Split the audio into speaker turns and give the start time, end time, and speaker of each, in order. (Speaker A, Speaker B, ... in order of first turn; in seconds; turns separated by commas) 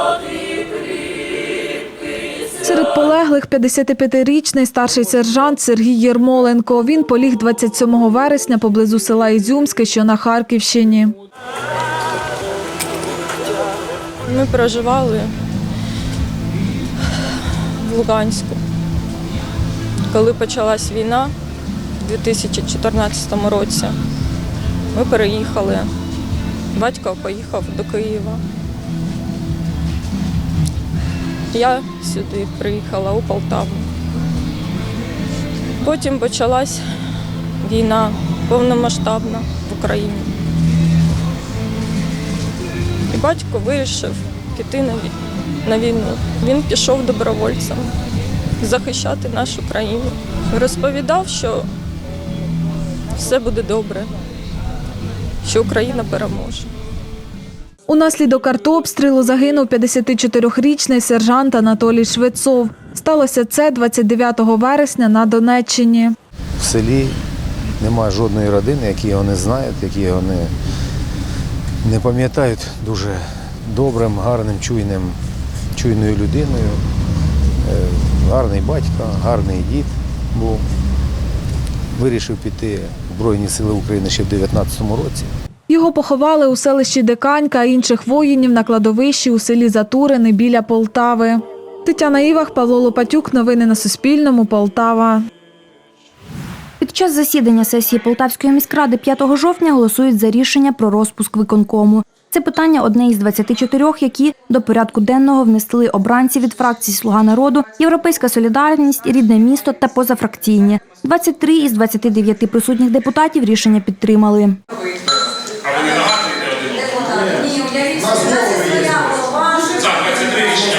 Speaker A: 2.6-11.1, Speaker B: 14.3-15.3, Speaker B: 17.9-18.6, Speaker B: 20.1-21.3, Speaker B: 22.1-23.9, Speaker B: 25.0-25.8, Speaker B: 26.8-28.4, Speaker B: 31.6-33.8, Speaker B: 35.9-36.8, Speaker B: 37.7-40.2, Speaker B: 43.1-45.1, Speaker B: 45.7-47.8, Speaker B: 48.6-51.6, Speaker B: 53.2-54.0, Speaker B: 55.5-56.6, Speaker A: 57.9-66.1, Speaker C: 66.6-67.2, Speaker C: 67.8-70.5, Speaker C: 71.8-75.2, Speaker C: 75.8-76.8, Speaker C: 77.7-80.6, Speaker C: 82.0-85.3, Speaker A: 85.7-95.3, Speaker D: 96.8-114.6, Speaker D: 117.3-119.3